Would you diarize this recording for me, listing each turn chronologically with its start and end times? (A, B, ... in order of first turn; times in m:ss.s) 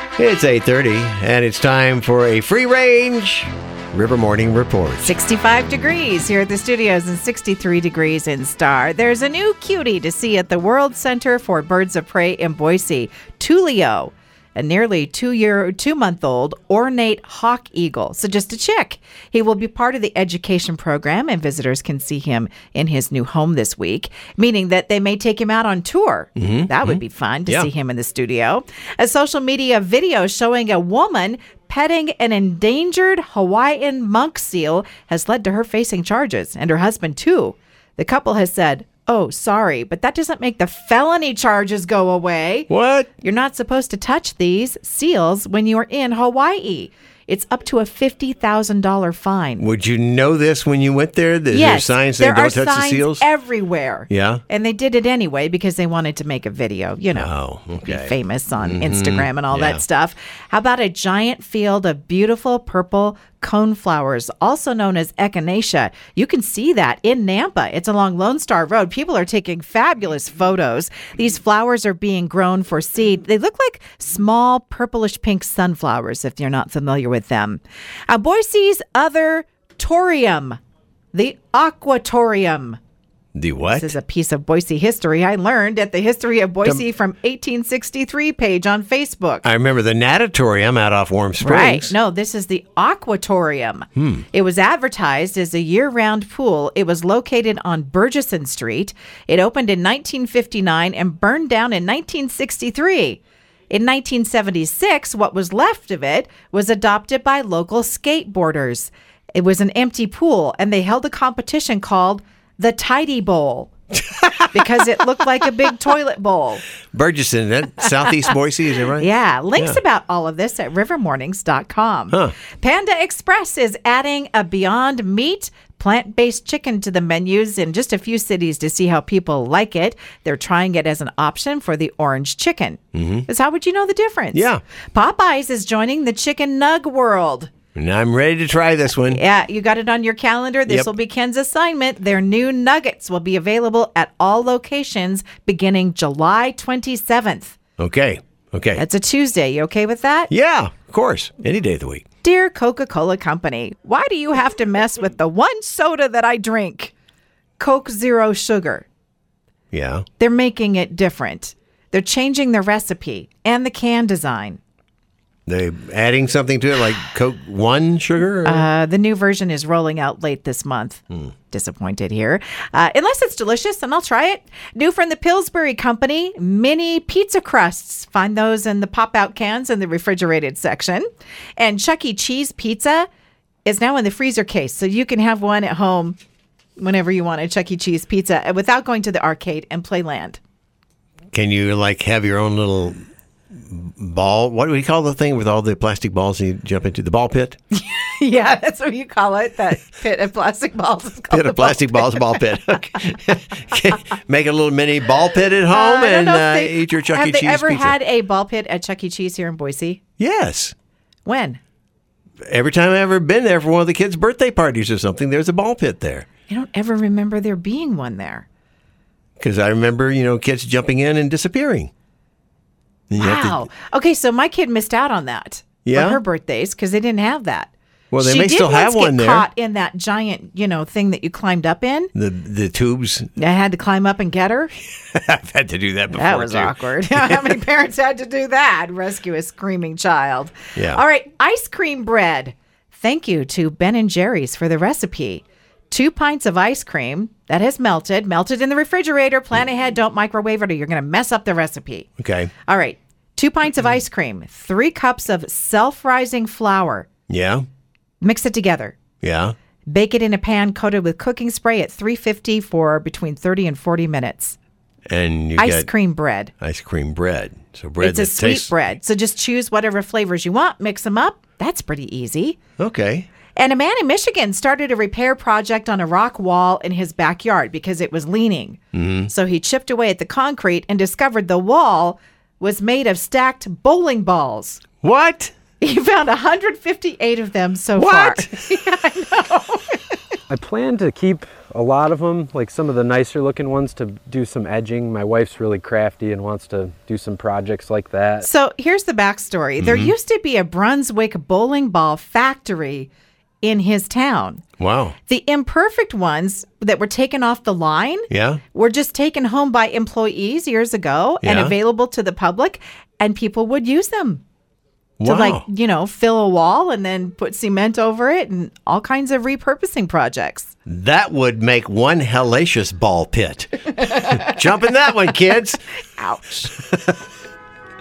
0:00.2-0:05.1 A
0:05.0-0:42.7 B
0:26.4-0:27.7 A
0:42.7-0:43.1 A
0:43.2-0:49.6 B
0:49.6-0:53.2 A
0:51.5-1:20.6 B
0:54.1-0:54.4 A
0:57.1-0:59.8 A
1:21.1-1:22.8 B
1:23.3-1:23.9 A
1:23.7-1:29.4 B
1:29.4-1:31.9 A
1:31.4-1:53.7 B
1:34.0-1:34.2 A
1:54.5-1:56.6 B
1:56.9-1:59.8 A
1:59.0-2:17.5 B
2:12.9-2:13.3 A
2:14.3-2:14.6 A
2:17.7-2:19.2 A
2:19.1-2:27.6 B
2:27.8-2:28.8 A
2:28.8-2:30.3 B
2:30.3-2:32.0 A
2:32.2-2:36.9 B
2:37.6-2:38.8 B
2:39.7-2:40.0 A
2:40.2-2:44.6 B
2:45.5-2:48.6 A
2:48.4-3:01.0 B
3:01.6-3:03.1 B
3:03.6-3:06.2 B
3:06.8-3:10.4 B
3:11.3-3:13.0 A
3:13.5-3:17.6 A
3:17.7-3:22.4 B
3:21.3-3:27.9 A
3:25.7-3:30.0 B
3:30.2-3:30.7 A
3:31.2-3:31.6 B
3:32.4-3:36.3 A
3:36.5-3:38.4 B
3:39.4-3:41.9 A
3:43.1-3:43.7 A
3:43.2-3:52.1 B
3:45.8-3:46.2 A
3:48.1-3:49.5 A
3:52.1-3:53.3 A
3:53.4-3:54.7 B
3:55.1-3:57.5 A
3:56.1-4:12.1 B
4:00.8-4:01.0 A
4:12.2-4:12.5 A
4:12.6-4:17.1 B
4:17.3-4:17.6 A
4:18.2-4:19.0 B
4:19.2-4:19.5 A
4:19.9-4:24.6 B
4:25.1-4:25.9 A
4:25.6-4:26.5 B
4:26.6-4:28.7 A
4:28.0-4:32.6 B
4:32.8-4:33.3 A
4:33.5-4:44.8 B
4:38.9-4:39.3 A
4:45.0-4:45.5 A
4:45.8-4:50.2 B
4:48.0-4:48.5 A
4:50.5-4:58.5 C
4:58.4-5:03.1 B
4:59.8-5:00.1 A
5:03.6-5:04.6 B
5:04.8-5:05.2 A
5:05.2-5:14.4 B
5:08.3-5:08.6 A
5:11.4-5:11.8 A
5:15.2-5:15.6 A
5:15.2-5:20.7 B
5:20.8-5:25.8 A
5:24.0-5:24.5 B
5:26.1-5:26.7 B